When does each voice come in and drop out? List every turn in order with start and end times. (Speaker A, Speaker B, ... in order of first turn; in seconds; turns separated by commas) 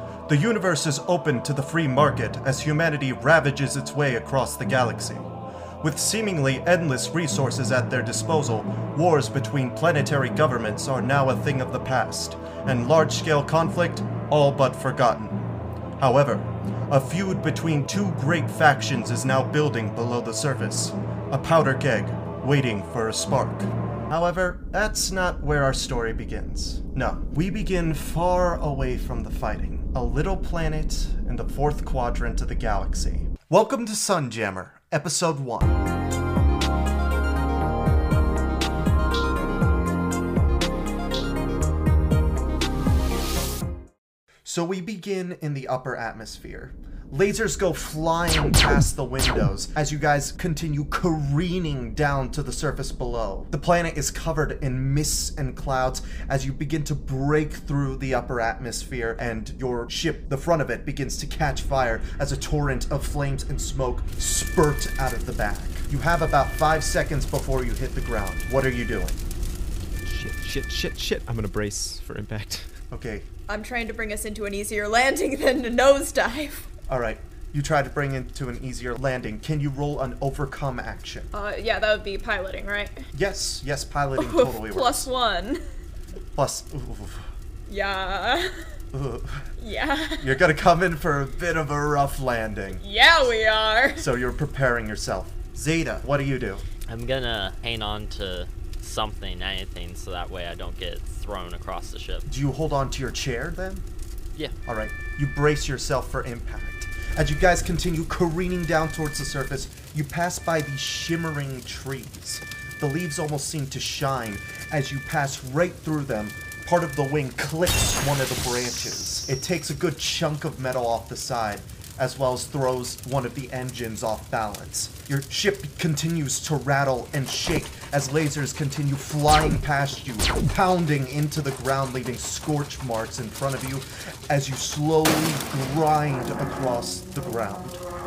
Speaker A: 0.3-5.3, Speaker A: 5.8-35.8, Speaker A: 44.5-69.2, Speaker B: 70.0-72.8, Speaker A: 72.9-73.3, Speaker C: 73.5-76.7, Speaker A: 76.9-81.3, Speaker C: 81.3-83.1, Speaker A: 83.1-85.1, Speaker C: 84.2-85.6, Speaker A: 86.4-87.3, Speaker C: 87.7-88.8, Speaker A: 88.9-89.5, Speaker C: 89.6-90.4, Speaker A: 90.2-92.8, Speaker C: 92.8-94.1, Speaker A: 94.0-96.7, Speaker D: 96.9-102.2, Speaker A: 102.3-103.8, Speaker A: 104.7-137.8